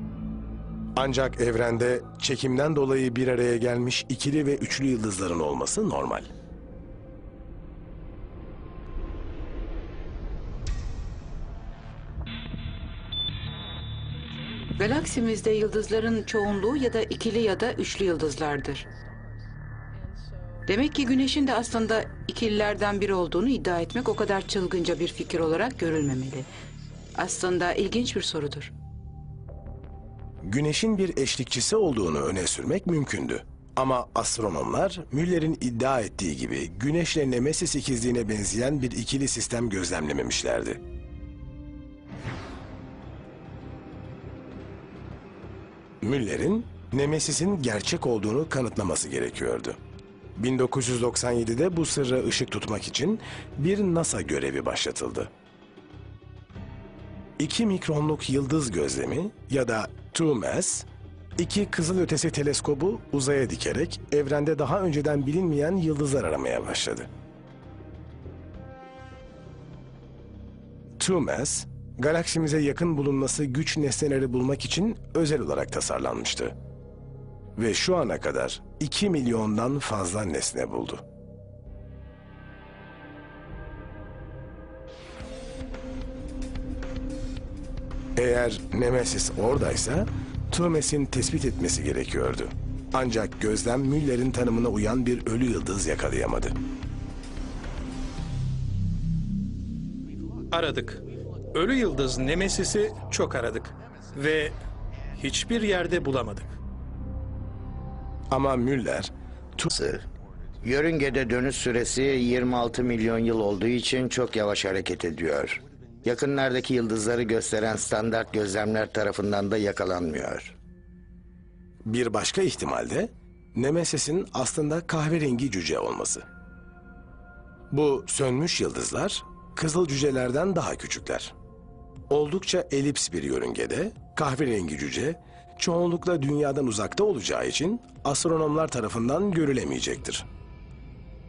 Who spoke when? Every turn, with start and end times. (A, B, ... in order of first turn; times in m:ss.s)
0:01.0-0:06.3 A
0:14.8-0:18.9 B
0:20.7-0:26.5 B
0:27.2-0:28.7 B
0:30.4-0:40.8 A
0:46.0-0:49.8 A
0:50.4-0:55.3 A
0:57.4-1:00.9 A
1:01.4-1:07.1 A
1:11.0-1:16.6 A
1:17.6-1:21.0 A
1:28.2-1:36.6 A
1:40.5-1:44.6 C
1:45.1-1:46.5 C
1:48.3-1:49.7 A
1:49.7-1:50.0 D
1:50.6-2:00.5 D
2:01.9-2:06.3 A
2:07.7-2:11.3 A
2:12.1-2:20.3 A